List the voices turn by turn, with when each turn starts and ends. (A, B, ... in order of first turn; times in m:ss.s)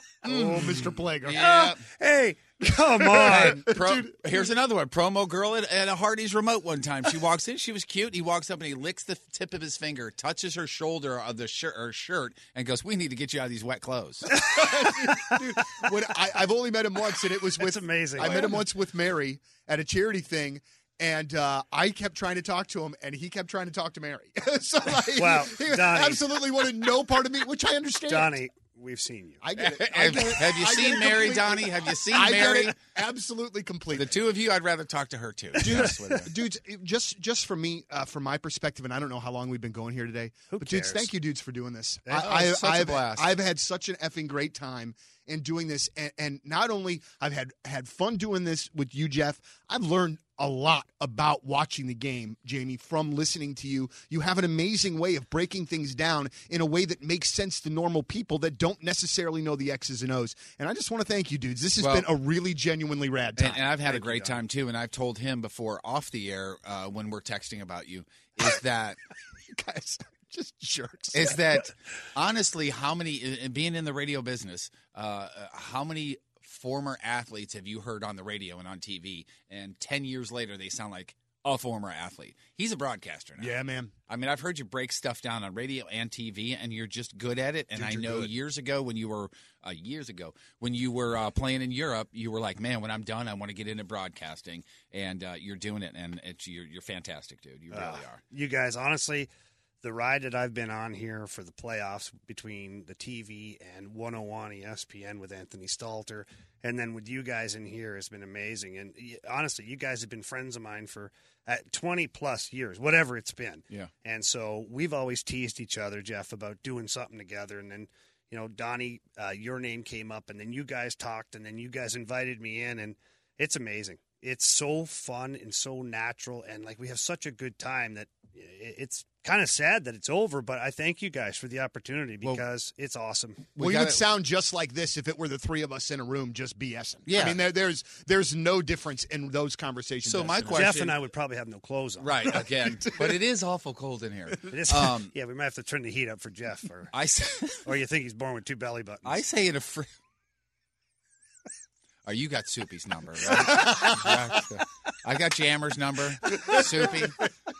0:00.2-0:01.6 A
0:00.2-0:03.7 B
0:01.2-0:01.8 C
0:03.0-0:04.4 A
0:03.1-0:14.3 C
0:14.3-0:28.4 A
0:14.5-0:15.3 B
0:17.6-0:18.6 B
0:25.2-0:26.2 B
0:28.1-0:29.4 B
0:29.4-0:34.2 A
0:29.6-0:32.8 C
0:33.9-0:36.3 C
0:35.6-0:36.2 B
0:35.6-1:03.6 A
0:40.5-0:41.1 B
0:42.1-0:43.3 C
1:01.8-1:02.1 C
1:03.4-1:09.0 C
1:03.8-1:04.4 B
1:09.5-1:11.6 A
1:11.1-1:23.5 C
1:23.4-1:23.9 A
1:24.1-1:38.2 C
1:27.7-1:28.3 A
1:37.7-1:39.3 B
1:39.8-2:13.5 B
2:13.6-2:14.0 C
2:13.6-2:20.8 A
2:17.1-2:17.4 C
2:20.0-2:21.0 C
2:20.5-2:22.3 B
2:22.0-2:25.1 C
2:22.8-2:23.2 A
2:24.5-2:26.9 B
2:26.9-2:27.7 C
2:27.6-2:29.2 B
2:29.0-2:29.9 C
2:32.0-2:37.2 C
2:33.3-2:34.4 A
2:36.4-2:36.6 A